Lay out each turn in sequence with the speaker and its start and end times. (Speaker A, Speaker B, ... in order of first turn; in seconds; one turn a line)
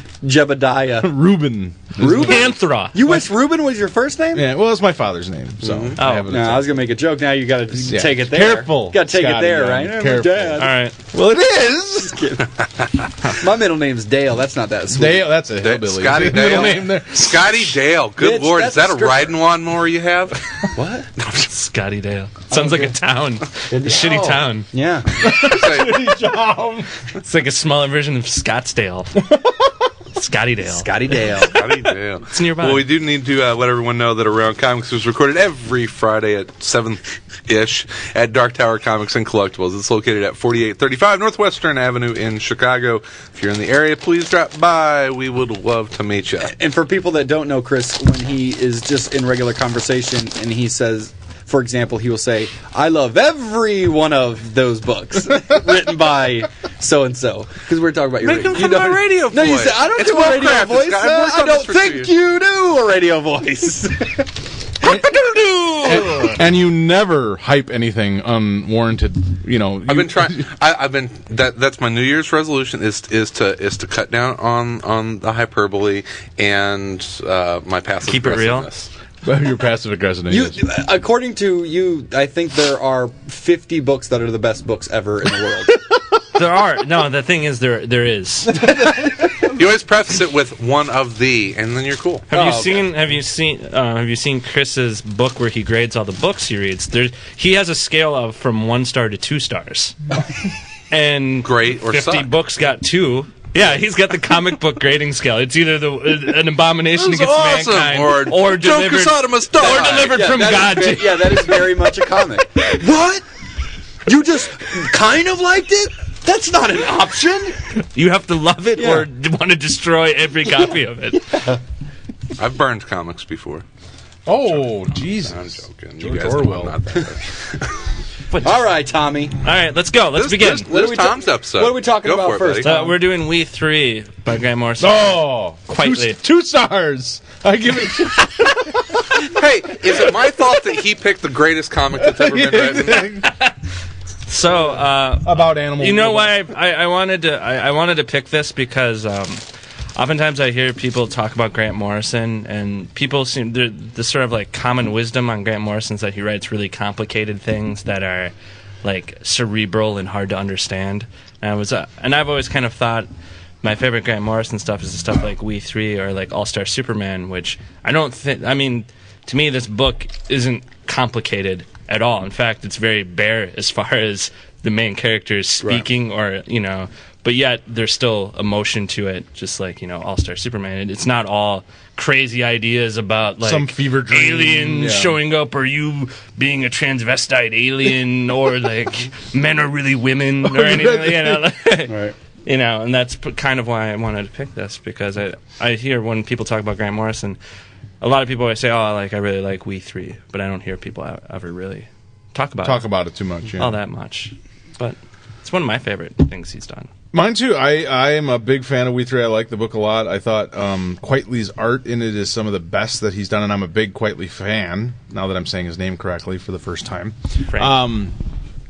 Speaker A: 0.2-1.1
Speaker B: 1.0-2.6
Speaker A: 2.0-4.5
Speaker C: 2.1-3.3
Speaker B: 4.3-6.8
Speaker D: 5.6-6.0
Speaker C: 6.0-6.3
Speaker A: 6.3-10.7
Speaker B: 7.8-12.2
Speaker C: 10.6-11.0
Speaker A: 12.0-12.5
Speaker A: 13.3-15.4
Speaker B: 14.9-17.7
Speaker D: 15.6-20.4
Speaker A: 18.2-19.4
Speaker A: 20.7-21.1
Speaker D: 21.2-21.5
Speaker C: 21.5-24.7
Speaker A: 22.5-22.9
Speaker A: 23.7-25.2
Speaker B: 25.2-26.9
Speaker D: 25.3-26.0
Speaker C: 27.2-29.2
Speaker B: 29.2-29.7
Speaker C: 30.1-30.9
Speaker A: 30.6-31.6
Speaker D: 31.4-46.5
Speaker C: 32.2-32.8
Speaker A: 46.4-64.3
Speaker D: 58.2-62.1
Speaker A: 64.8-66.3
Speaker B: 65.8-70.5
Speaker D: 69.9-78.9
Speaker C: 78.1-78.7
Speaker B: 79.2-80.6
Speaker A: 80.3-85.8
Speaker C: 86.3-88.6
Speaker D: 89.5-92.3
Speaker C: 92.3-99.9
Speaker A: 92.3-92.8
Speaker C: 100.9-111.6
Speaker D: 101.4-102.3
Speaker D: 106.9-110.3
Speaker A: 109.6-113.2
Speaker A: 114.0-117.6
Speaker C: 117.9-121.2
Speaker A: 118.8-119.1
Speaker A: 121.2-121.6
Speaker D: 122.4-123.6
Speaker B: 124.2-126.8
Speaker D: 124.5-127.7
Speaker C: 128.3-128.6
Speaker A: 128.4-129.4
Speaker C: 129.4-130.7
Speaker D: 130.1-132.7
Speaker A: 130.7-133.0
Speaker C: 132.6-136.2
Speaker B: 134.8-139.2
Speaker D: 139.2-143.1
Speaker B: 139.7-140.4
Speaker B: 141.9-143.3
Speaker C: 143.2-143.5
Speaker C: 144.3-149.4
Speaker B: 145.2-146.4
Speaker C: 149.9-158.3
Speaker C: 158.8-163.1
Speaker C: 163.6-191.9
Speaker B: 183.4-185.2
Speaker B: 190.4-191.4
Speaker A: 191.9-192.1
Speaker C: 192.4-197.4
Speaker C: 198.0-202.8
Speaker B: 202.6-203.8
Speaker C: 203.6-206.9
Speaker B: 207.1-218.2
Speaker C: 217.5-217.8